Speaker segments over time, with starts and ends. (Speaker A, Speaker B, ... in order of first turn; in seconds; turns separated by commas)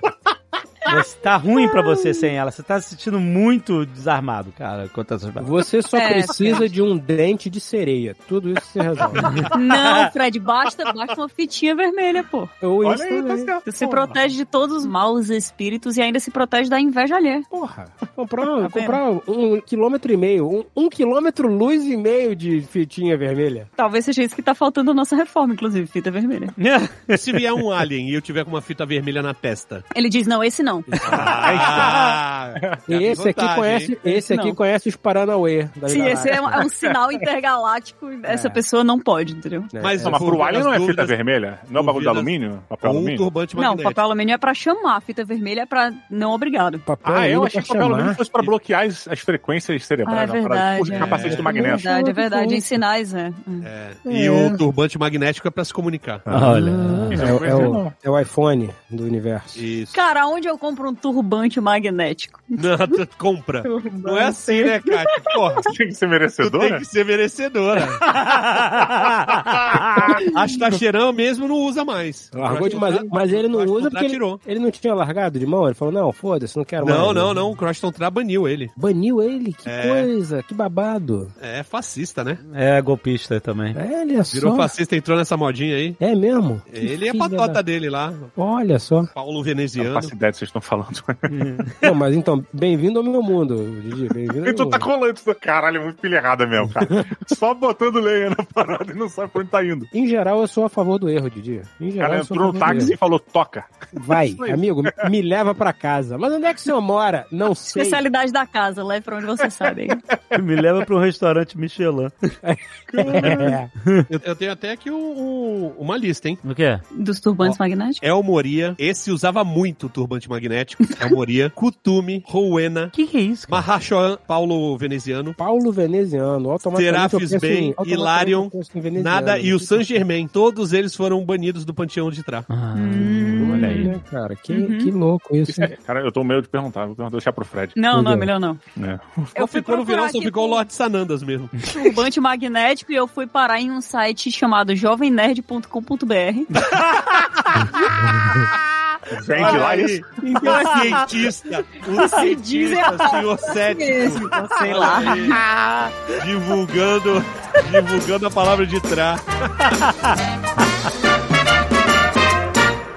Speaker A: 0.8-5.5, Speaker B: 5.4-9.5, Speaker C: 5.9-6.7, Speaker A: 9.2-10.1, Speaker C: 9.5-12.5, Speaker B: 12.6-13.6, Speaker D: 12.8-14.3, Speaker C: 13.6-17.4, Speaker B: 17.5-23.7, Speaker C: 18.6-19.0, Speaker C: 23.8-26.5, Speaker A: 26.6-27.4, Speaker E: 27.1-29.8, Speaker C: 29.9-31.1, Speaker B: 31.0-31.7, Speaker E: 31.0-33.9, Speaker D: 31.1-32.2, Speaker B: 32.9-36.7, Speaker C: 34.0-34.6, Speaker C: 35.9-39.7, Speaker B: 38.2-38.6, Speaker B: 39.7-40.5, Speaker E: 39.8-41.2, Speaker D: 40.0-43.2, Speaker E: 41.7-44.0, Speaker C: 43.5-46.8, Speaker B: 46.8-48.3, Speaker D: 47.0-51.9, Speaker C: 50.0-53.7, Speaker E: 50.9-51.5, Speaker B: 51.4-52.6, Speaker E: 53.6-56.3, Speaker B: 54.0-54.6, Speaker B: 56.3-59.7, Speaker A: 56.3-57.7, Speaker D: 57.1-58.0, Speaker E: 59.5-60.0, Speaker C: 59.9-63.0, Speaker E: 62.6-65.7, Speaker C: 63.6-65.6, Speaker D: 65.6-66.8, Speaker E: 66.4-68.2, Speaker A: 68.0-70.0, Speaker E: 70.0-74.4, Speaker B: 72.3-77.4, Speaker E: 76.8-78.7, Speaker B: 78.8-81.3, Speaker E: 79.6-80.1, Speaker E: 81.4-82.4, Speaker A: 82.5-83.8, Speaker B: 83.7-84.7, Speaker E: 84.3-86.0, Speaker B: 86.0-87.6, Speaker E: 86.7-88.3, Speaker B: 88.3-89.1, Speaker E: 89.1-90.1, Speaker D: 89.8-91.3, Speaker A: 91.3-91.8, Speaker B: 91.8-94.9, Speaker D: 94.4-99.9, Speaker B: 99.9-103.0, Speaker D: 102.0-105.0, Speaker C: 102.7-102.9, Speaker B: 103.9-108.0, Speaker C: 107.7-110.0, Speaker A: 110.3-112.1, Speaker B: 112.4-113.7, Speaker D: 113.1-113.4, Speaker E: 114.1-116.4, Speaker A: 116.4-116.8, Speaker C: 116.9-118.0, Speaker E: 117.4-122.9, Speaker A: 122.9-123.7, Speaker E: 123.5-125.4, Speaker B: 125.4-130.0, Speaker E: 126.7-132.5, Speaker A: 132.5-133.9, Speaker C: 132.7-134.0, Speaker B: 133.4-135.7, Speaker C: 134.5-134.9, Speaker D: 135.5-137.8, Speaker C: 137.7-138.6, Speaker B: 137.9-138.3, Speaker D: 138.8-139.3, Speaker C: 139.3-140.6, Speaker E: 139.3-141.6, Speaker C: 141.6-146.5, Speaker A: 146.7-147.3, Speaker B: 148.1-148.5, Speaker D: 149.1-150.1, Speaker E: 149.3-155.4, Speaker C: 149.4-155.7, Speaker E: 156.1-159.7